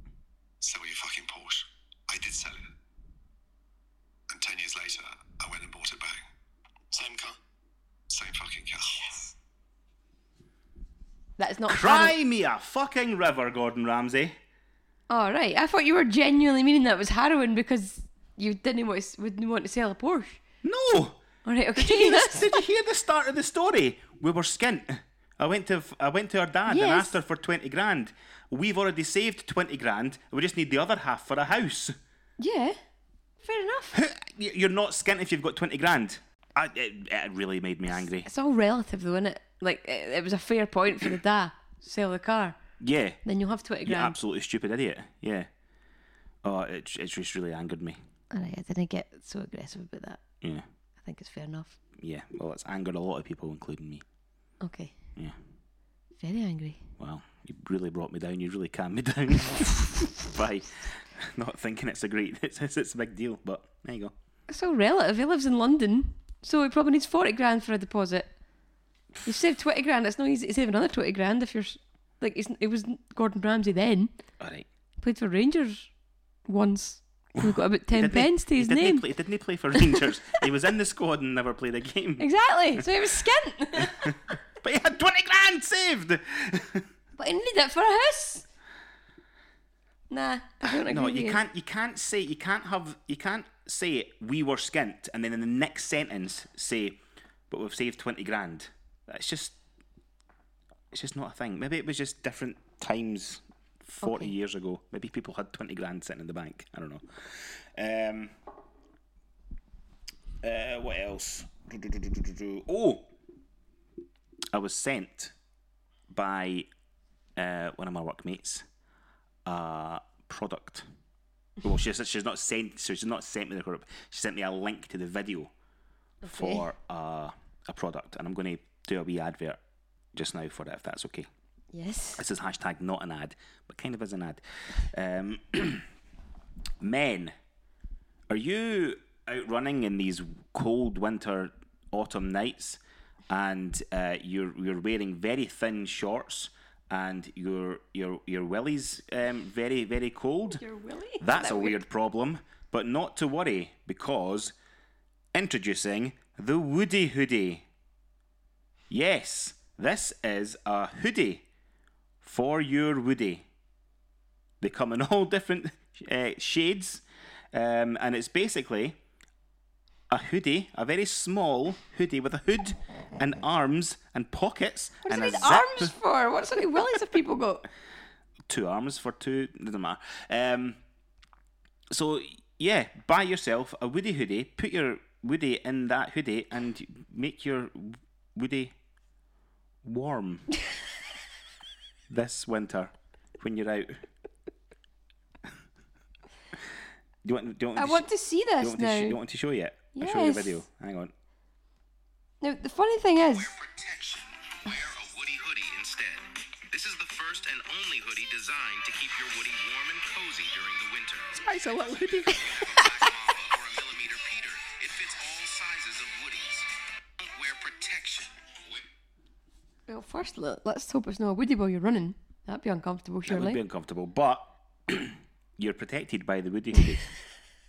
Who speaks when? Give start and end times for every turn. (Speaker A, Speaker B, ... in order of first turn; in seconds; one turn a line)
Speaker A: 0.6-2.6
Speaker A: 4.3-6.2
Speaker A: 6.9-7.4
Speaker A: 8.1-9.3
Speaker B: 11.4-12.2
Speaker C: 11.7-14.4
Speaker B: 15.1-20.4
Speaker C: 20.6-21.2
Speaker B: 21.4-22.6
Speaker C: 21.8-32.0
Speaker B: 26.7-27.1
Speaker B: 32.4-32.8
Speaker B: 33.4-34.0
Speaker C: 33.9-38.3
Speaker B: 38.2-42.6
Speaker C: 42.8-43.2
Speaker B: 43.2-44.2
Speaker C: 43.9-45.5
Speaker C: 46.4-48.0
Speaker B: 48.3-50.2
Speaker C: 50.4-50.7
Speaker B: 51.0-51.8
Speaker C: 52.0-54.0
Speaker B: 54.6-55.0
Speaker B: 56.2-56.8
Speaker C: 57.0-64.1
Speaker B: 64.5-68.3
Speaker B: 69.2-74.1
Speaker C: 74.4-74.7
Speaker B: 75.0-75.9
Speaker B: 76.5-79.0
Speaker C: 77.4-82.9
Speaker B: 79.8-80.0
Speaker B: 82.2-84.2
Speaker C: 84.0-86.9
Speaker B: 87.2-88.5
Speaker B: 90.1-91.4
Speaker C: 90.6-97.0
Speaker C: 97.5-99.6
Speaker C: 100.9-108.3
Speaker B: 104.0-104.3
Speaker C: 110.4-113.1
Speaker C: 114.5-115.3
Speaker C: 116.1-116.7
Speaker C: 117.4-118.7
Speaker C: 119.5-120.9
Speaker C: 121.6-125.5
Speaker B: 126.2-126.7
Speaker C: 126.2-129.6
Speaker C: 130.1-131.3
Speaker B: 131.7-132.2
Speaker C: 132.2-135.9
Speaker C: 136.8-137.3
Speaker C: 138.3-150.6
Speaker B: 150.5-151.8
Speaker C: 151.2-154.6
Speaker C: 155.3-157.7
Speaker C: 158.9-161.4
Speaker C: 162.2-163.4
Speaker C: 164.6-169.0
Speaker C: 170.1-175.9
Speaker B: 175.1-177.7
Speaker C: 178.5-180.8
Speaker C: 181.9-188.7
Speaker C: 189.8-190.5
Speaker C: 192.1-194.0
Speaker C: 197.2-198.1
Speaker B: 197.8-199.2
Speaker C: 198.6-201.1
Speaker B: 199.9-200.6
Speaker B: 202.4-203.5
Speaker D: 203.3-218.9
Speaker C: 211.3-212.7
Speaker B: 219.9-223.6
Speaker C: 223.3-227.0